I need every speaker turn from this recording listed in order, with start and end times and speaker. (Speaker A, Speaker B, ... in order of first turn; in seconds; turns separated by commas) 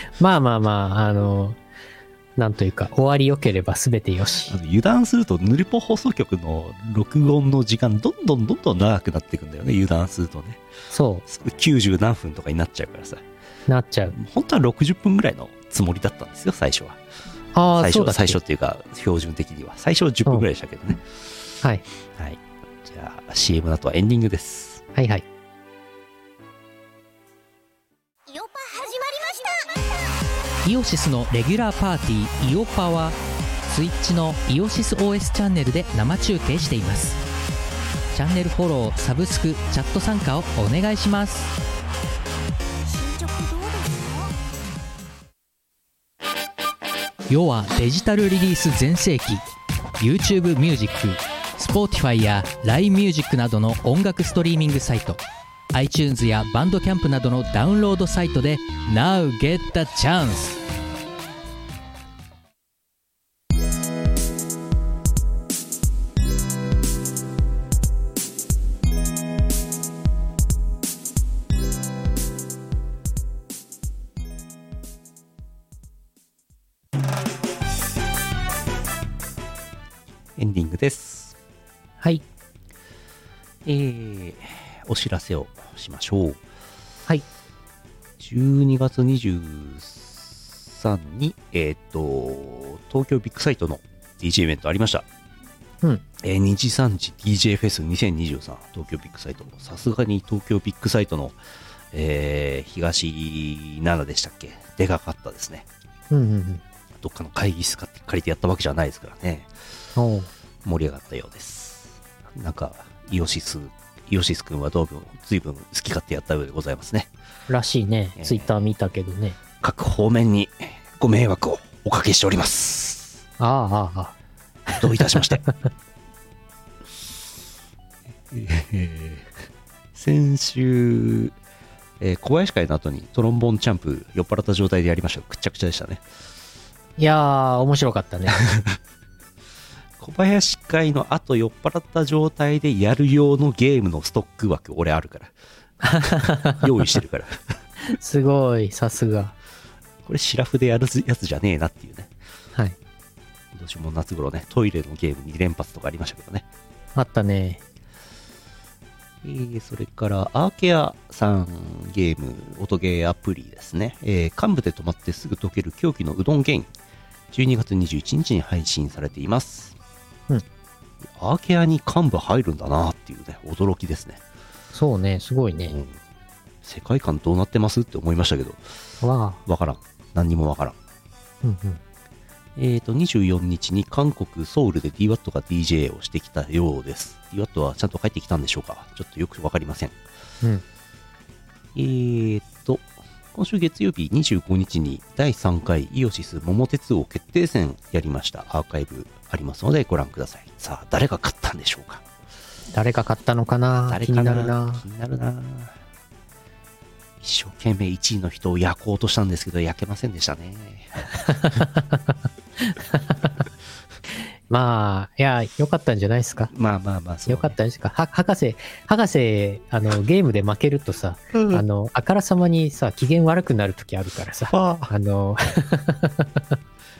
Speaker A: 0.2-1.6, Speaker A: 2.4-4.5, Speaker B: 4.5-10.6, Speaker A: 10.9-11.2, Speaker B: 11.2-13.2, Speaker A: 13.7-14.2, Speaker B: 14.1-17.0, Speaker A: 17.5-18.4, Speaker B: 17.8-21.0, Speaker B: 22.1-24.8, Speaker A: 24.9-25.2, Speaker C: 28.3-30.0, Speaker D: 30.6-33.2, Speaker D: 33.7-37.2, Speaker D: 38.1-41.5, Speaker C: 42.8-44.4, Speaker D: 47.3-49.5, Speaker D: 50.0-55.2, Speaker D: 55.7-60.6, Speaker B: 80.4-81.3, Speaker B: 83.7-86.4, Speaker B: 88.2-95.0, Speaker B: 96.2-101.4, Speaker B: 101.9-105.7, Speaker A: 106.1-106.6, Speaker B: 107.0-109.5, Speaker A: 110.0-110.3, Speaker B: 110.6-117.1, Speaker A: 117.5-119.4, Speaker B: 118.2-118.5, Speaker B: 119.6-123.2, Speaker A: 123.4-124.1, Speaker B: 124.7-125.5, Speaker B: 128.3-129.4, Speaker B: 129.9-131.3, Speaker B: 132.0-136.0, Speaker A: 137.0-138.4, Speaker B: 138.4-138.8, Speaker B: 140.0-145.3, Speaker A: 145.8-146.8, Speaker B: 146.0-147.4, Speaker A: 147.9-149.3, Speaker B: 150.1-152.1, Speaker B: 153.5-156.4, Speaker A: 156.9-157.6, Speaker B: 159.2-166.7, Speaker B: 167.3-169.8, Speaker B: 171.2-174.2, Speaker A: 174.7-175.8, Speaker B: 175.7-176.0, Speaker B: 176.6-178.6, Speaker A: 179.0-179.4, Speaker B: 179.4-180.8, Speaker A: 181.4-181.8, Speaker B: 182.6-190.0, Speaker B: 191.7-202.0, Speaker A: 202.7-204.8, Speaker B: 203.9-205.8, Speaker B: 207.2-210.9, Speaker A: 211.3-213.1, Speaker A: 214.5-216.5, Speaker B: 216.5-217.6, Speaker A: 217.3-226.5, Speaker B: 221.3-221.6, Speaker B: 224.5-224.9